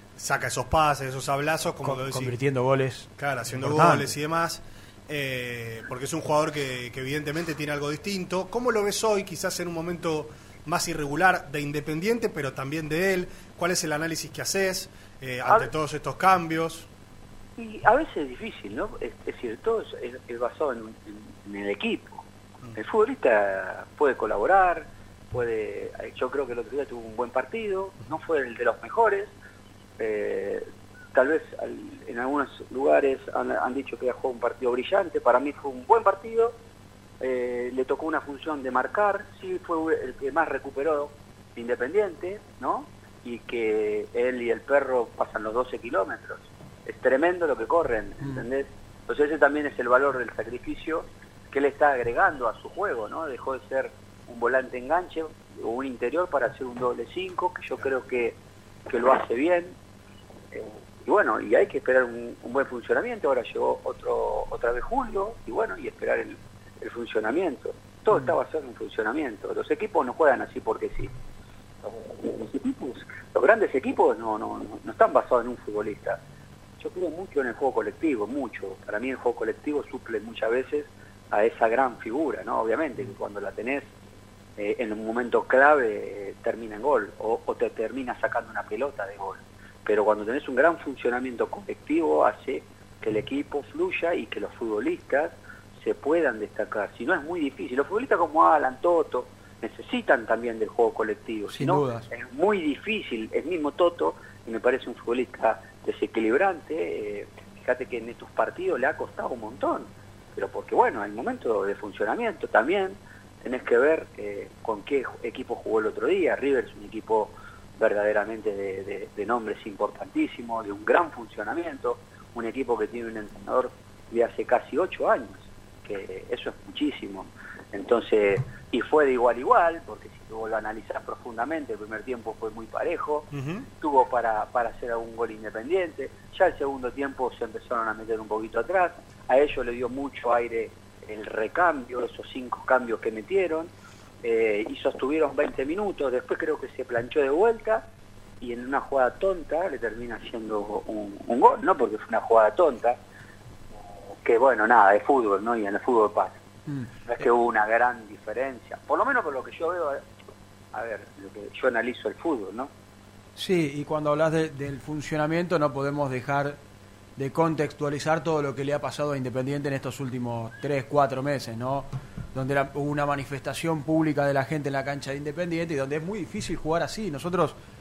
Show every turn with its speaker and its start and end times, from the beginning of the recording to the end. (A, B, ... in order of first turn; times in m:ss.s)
0:00.2-0:02.4 A
0:01.8-0:04.1 B
0:03.2-0:16.9 A
0:15.4-0:15.7 C
0:17.6-0:29.3 C
0:30.0-0:36.6 C
0:37.2-0:59.7 C
0:48.2-0:48.4 B
1:00.5-1:11.1 C
1:11.8-1:16.2 C
1:16.8-1:23.9 C
1:24.6-2:23.7 C
1:41.5-1:42.1 B
2:13.3-2:13.6 A
2:24.2-2:27.8 C
2:28.4-2:33.0 C
2:34.1-2:36.4 C
2:36.7-2:37.3 B
2:37.1-2:40.0 C
2:40.7-2:42.7 C
2:43.4-2:46.6 B
2:47.2-2:57.6 B